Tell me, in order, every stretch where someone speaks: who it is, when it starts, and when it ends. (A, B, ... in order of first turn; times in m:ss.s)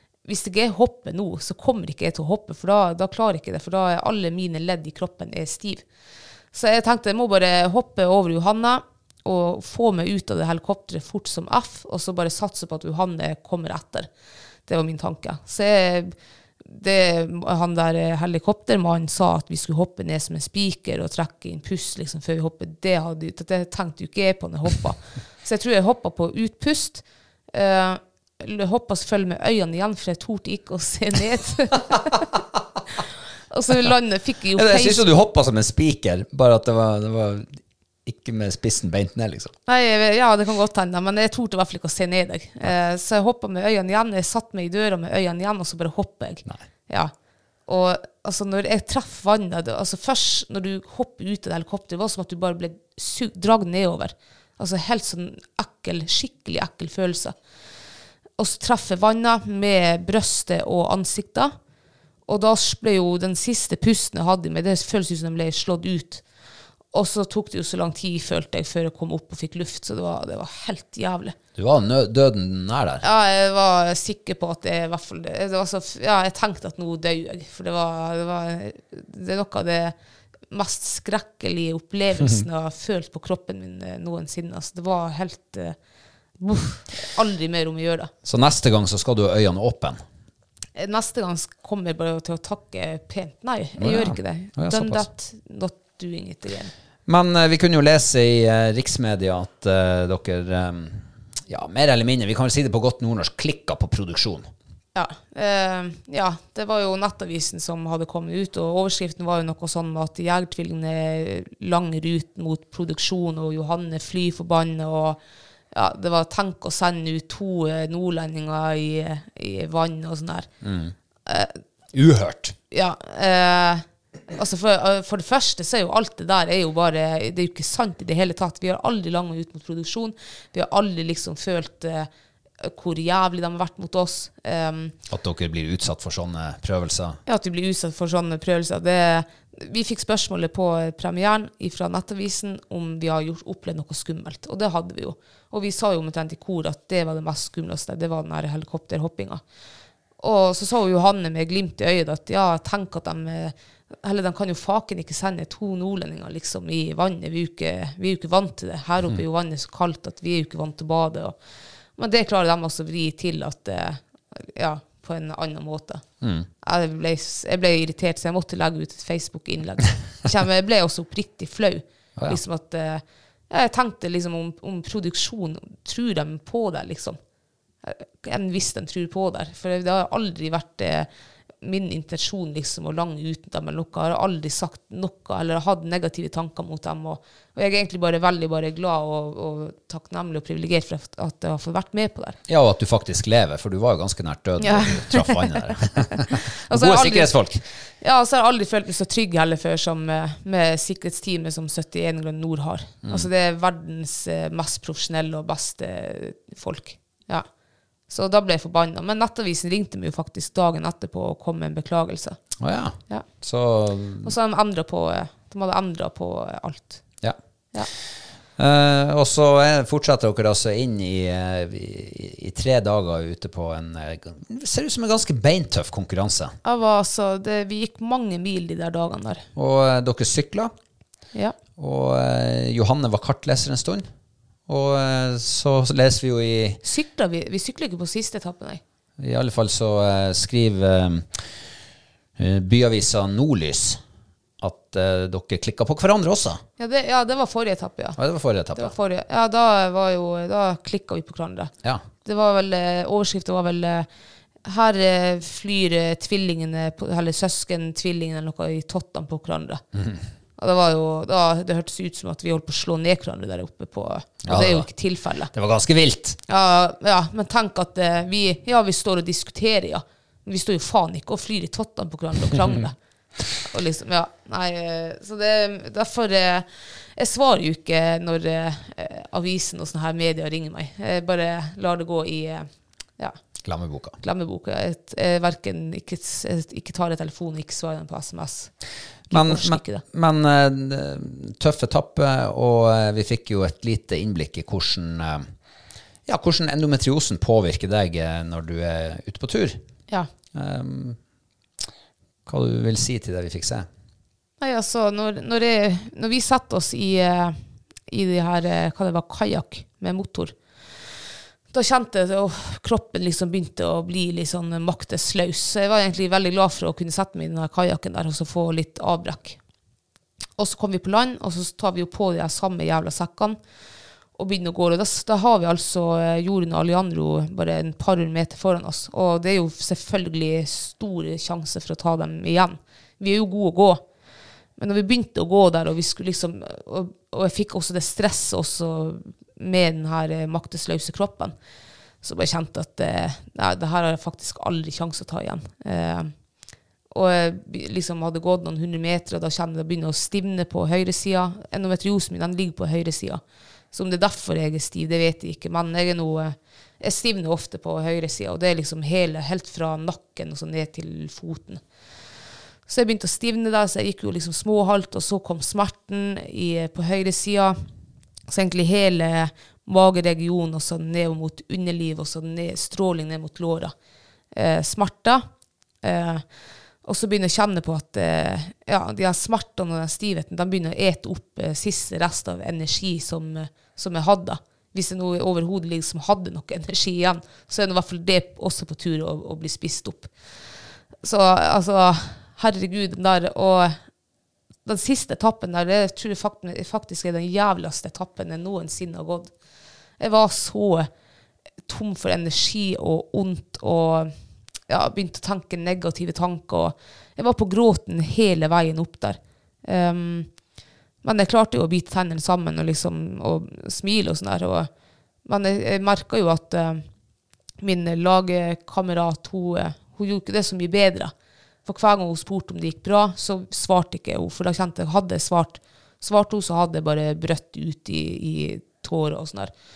0:00.2-0:05.8 A
0:06.5-0:14.1 A
0:14.7-0:32.3 A
0:33.5-0:35.0 A
0:34.6-0:39.6 B
0:39.7-0:47.1 A
0:47.7-0:57.4 A
0:58.4-1:01.5 A
1:02.3-1:06.2 A
1:06.9-1:11.4 A
1:11.6-1:13.0 B
1:13.0-1:19.9 A
1:20.5-1:25.8 A
1:26.4-1:28.1 A
1:28.2-1:30.0 B
1:30.8-1:36.7 A
1:33.8-1:35.1 B
1:37.1-1:44.5 B
1:45.0-1:55.2 A
1:55.7-2:00.5 A
2:00.6-2:01.0 B
2:01.3-2:01.6 A
2:01.9-2:02.6 B
2:02.7-2:12.1 A
2:12.6-2:15.0 A
2:15.1-2:17.2 B
2:17.3-2:29.4 A
2:30.2-2:41.4 A
2:42.0-2:46.0 A
2:46.2-2:46.5 B
2:46.6-2:57.2 A
2:57.8-3:01.1 A
3:01.6-3:12.4 A
3:12.5-3:17.6 B
3:14.6-3:17.3 A
3:18.0-3:27.5 A
3:28.1-3:32.4 A
3:32.6-3:34.3 B
3:34.2-3:37.0 A
3:38.6-3:46.6 B
3:46.6-3:49.5 A
3:49.6-3:50.7 B
3:51.8-3:54.1 B
3:54.7-3:56.8 B
3:56.8-3:58.8 A
3:59.2-4:01.5 B
4:02.4-4:04.0 B
4:04.6-4:06.6 B
4:06.8-4:08.2 A
4:08.2-4:09.0 B
4:08.8-4:11.7 A
4:12.2-4:14.1 A
4:14.6-4:19.8 A
4:19.9-4:20.2 B
4:20.6-4:25.5 A
4:24.4-4:24.9 B
4:25.5-4:26.4 B
4:26.5-4:33.0 A
4:33.6-4:43.4 A
4:43.6-4:44.2 B
4:44.2-4:48.7 A
4:49.3-4:50.0 A
4:49.3-4:55.5 B
4:56.3-4:59.8 B
5:00.5-5:01.2 B
5:02.5-5:03.9 B
5:04.6-5:07.6 A
5:08.1-5:10.6 A
5:11.7-5:19.6 A
5:20.6-5:23.6 A
5:24.4-5:34.0 A
5:34.8-5:41.5 A
5:42.2-5:46.3 A
5:47.1-5:53.4 A
5:53.9-6:01.8 A
6:02.9-6:07.8 A
6:08.5-6:13.9 A
6:14.5-6:15.5 A
6:16.0-6:16.4 A
6:17.0-6:30.3 A
6:31.2-6:34.0 A
6:34.9-6:39.5 A
6:40.2-6:41.1 A
6:41.9-6:44.3 A
6:44.9-6:50.5 A
6:51.2-6:54.9 A
6:55.5-6:57.0 A
6:57.8-7:01.3 A
7:01.8-7:09.7 A